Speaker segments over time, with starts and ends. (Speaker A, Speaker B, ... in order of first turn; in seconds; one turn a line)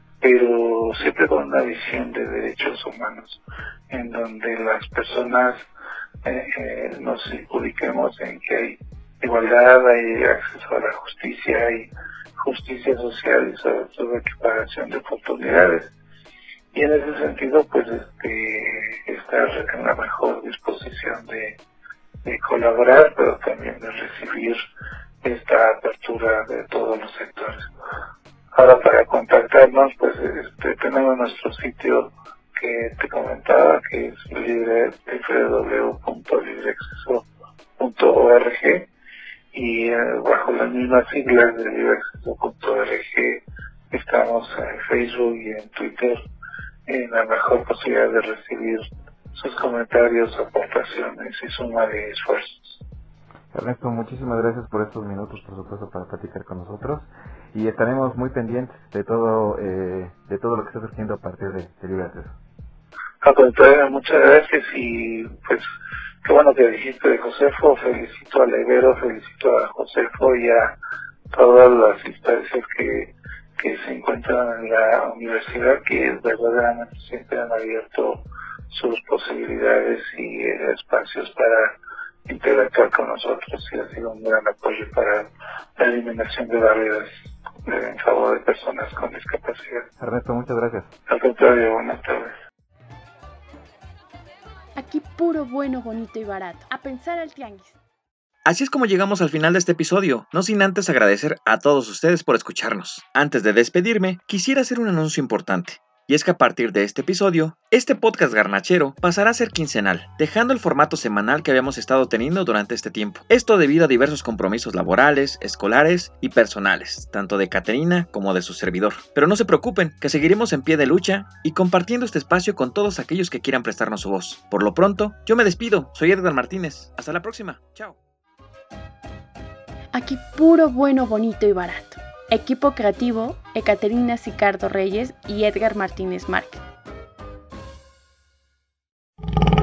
Speaker A: 0.2-5.6
Speaker A: 6.2-15.9
Speaker A: 16.7-21.6
Speaker A: 22.2-24.6
Speaker A: 25.2-27.7
Speaker A: 28.5-37.3
Speaker A: 37.8-38.9
Speaker A: 39.5-46.2
Speaker A: 46.9-52.8
Speaker B: 53.5-62.4
Speaker A: 63.2-65.7
Speaker A: 66.2-70.8
Speaker A: 71.3-87.1
Speaker A: 87.6-89.9
Speaker B: 90.0-90.9
Speaker A: 91.1-92.3
Speaker C: 94.8-97.8
Speaker D: 98.5-128.0
Speaker C: 129.9-136.6